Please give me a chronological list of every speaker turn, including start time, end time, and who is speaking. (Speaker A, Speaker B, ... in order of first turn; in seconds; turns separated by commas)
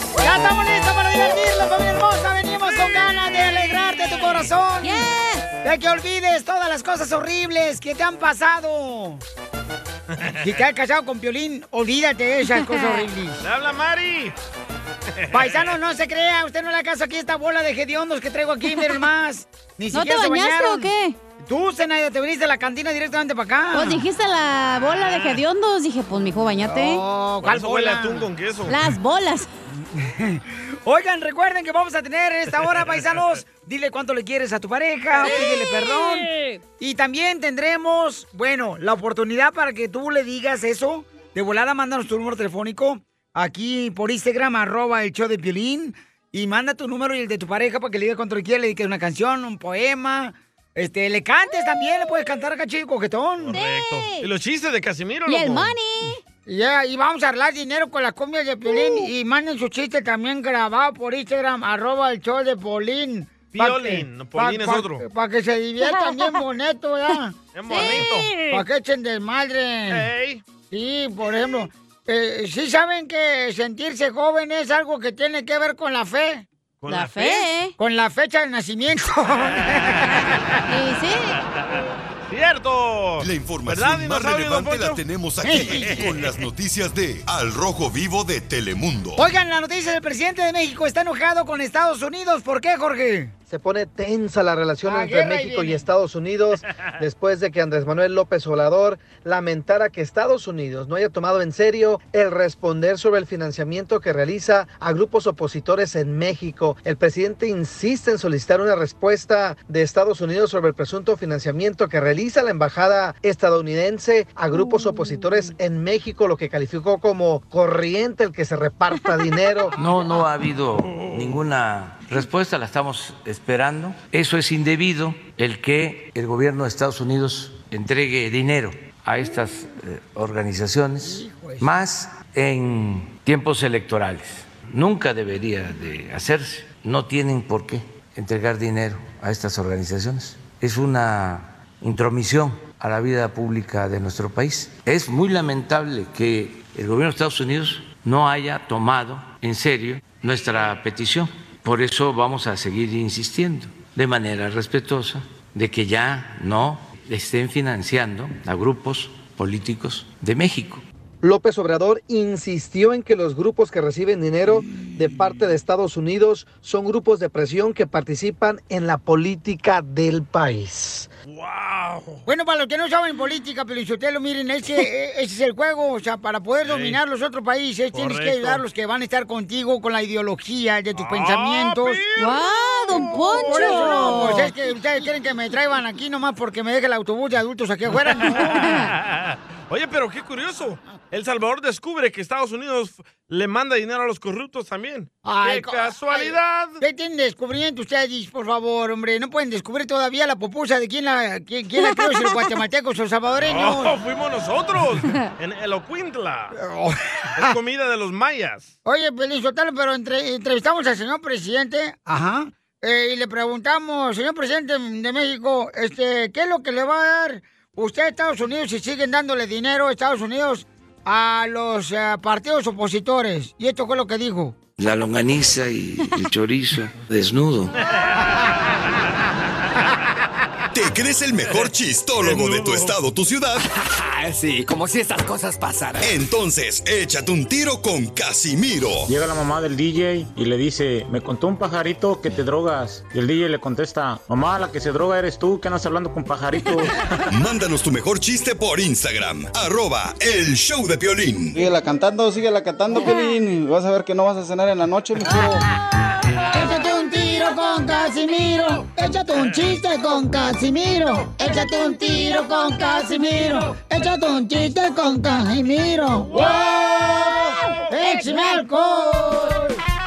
Speaker A: 0.2-5.1, Speaker B: 4.8-5.5, Speaker A: 5.6-9.2, Speaker A: 10.4-13.4, Speaker B: 12.5-13.1, Speaker C: 13.4-14.3, Speaker C: 15.2-15.7, Speaker A: 15.3-24.0, Speaker B: 19.9-21.2, Speaker B: 23.7-27.0, Speaker C: 25.1-25.3, Speaker A: 26.7-28.3, Speaker C: 27.4-28.8, Speaker B: 28.7-29.5, Speaker A: 29.9-53.6, Speaker C: 32.6-33.2, Speaker B: 35.2-36.6, Speaker C: 53.4-55.8, Speaker B: 53.5-54.3, Speaker B: 55.3-56.2, Speaker A: 56.5-67.4, Speaker B: 58.8-59.1, Speaker C: 63.5-65.0, Speaker B: 65.8-66.4, Speaker C: 67.5-68.3, Speaker B: 67.7-68.6, Speaker A: 68.5-70.0, Speaker C: 69.9-70.4, Speaker A: 70.7-76.5, Speaker C: 76.8-77.5, Speaker B: 76.9-77.7, Speaker A: 77.8-80.1, Speaker C: 79.7-80.4, Speaker B: 80.7-81.4, Speaker C: 82.3-86.3, Speaker D: 83.2-89.2, Speaker A: 85.4-85.9, Speaker A: 89.2-93.3, Speaker E: 93.5-119.8, Speaker A: 94.9-95.8, Speaker F: 119.8-160.8, Speaker C: 120.9-121.3, Speaker A: 131.0-131.7, Speaker E: 161.2-171.1, Speaker C: 171.3-172.2, Speaker A: 172.3-182.0, Speaker C: 176.7-177.0, Speaker C: 177.9-178.6, Speaker C: 181.0-184.4, Speaker B: 182.2-184.5, Speaker A: 183.3-188.7, Speaker C: 188.7-196.8, Speaker A: 195.2-203.9, Speaker B: 201.9-202.3, Speaker C: 203.4-206.6, Speaker A: 206.5-207.6, Speaker C: 207.4-208.7, Speaker A: 208.8-224.6, Speaker F: 224.8-227.7, Speaker C: 228.1-228.8, Speaker D: 230.7-233.6, Speaker C: 232.2-233.0, Speaker G: 233.8-236.2, Speaker D: 236.0-239.1, Speaker H: 239.1-246.9, Speaker D: 247.3-251.6, Speaker I: 251.5-255.6, Speaker A: 256.5-269.8, Speaker B: 268.0-269.5